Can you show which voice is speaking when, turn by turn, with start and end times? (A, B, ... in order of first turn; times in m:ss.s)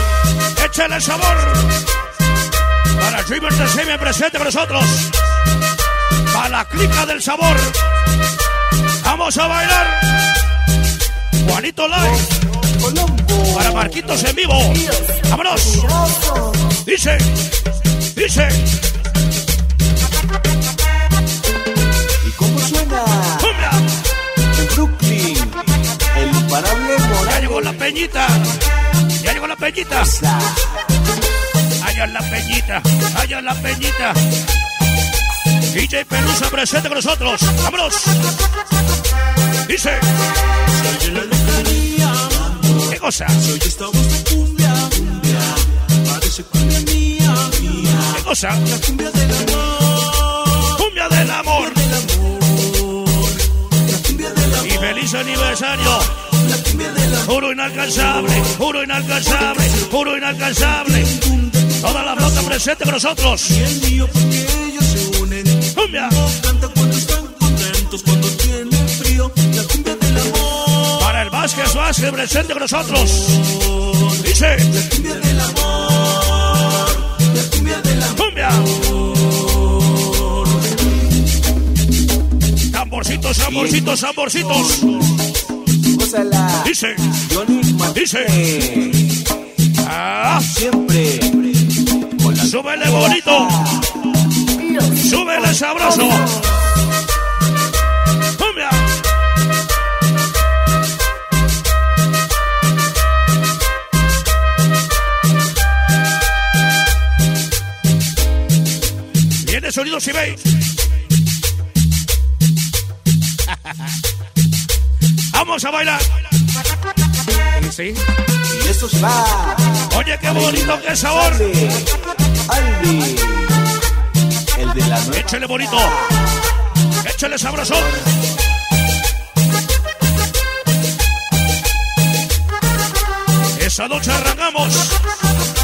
0:00.6-0:01.7 A
0:03.0-0:05.2 A
0:06.3-0:07.8 A
0:09.0-0:10.2 A
0:11.4-0:12.3 A
0:12.8-0:14.1 B
0:13.5-0:15.8 A
0:15.7-0:16.6 B
0:16.8-0:17.3 A
0:18.1-0:18.7 A
0:22.2-0:23.6 B
0:23.4-0:23.9 A
0:24.5-0:27.8 B
0:27.2-0:28.6 A
0:29.2-0:30.2 A
0:30.0-0:30.9 B
0:31.8-0:34.2 A
0:35.7-0:38.3 A
0:39.6-0:40.1 A
0:40.7-0:42.9 C
0:42.9-0:43.4 A
0:43.4-0:48.2 C
0:48.1-0:48.6 A
0:48.7-0:50.6 C
0:50.6-0:51.8 A
0:51.5-0:54.8 C
0:54.6-0:56.2 A
0:56.3-0:57.3 C
0:57.2-1:01.2 A
0:59.4-0:59.9 C
1:00.7-1:02.6 C
1:01.8-1:03.6 A
1:03.5-1:11.0 C
1:05.7-1:06.2 A
1:11.0-1:13.5 A
1:14.1-1:14.8 A
1:14.7-1:18.2 C
1:18.1-1:18.8 A
1:22.7-1:25.2 A
1:25.9-1:29.2 B
1:26.6-1:27.2 A
1:27.9-1:28.4 A
1:29.8-1:30.6 A
1:30.5-1:31.5 B
1:32.1-1:33.9 B
1:32.4-1:33.7 A
1:34.9-1:36.4 A
1:38.4-1:39.0 A
1:49.4-1:50.5 A
1:55.3-1:56.1 A
1:57.5-1:58.0 A
1:58.5-2:03.6 B
1:59.9-2:01.5 A
2:04.5-2:06.3 B
2:05.1-2:06.0 A
2:07.0-2:08.0 A
2:13.5-2:15.0 A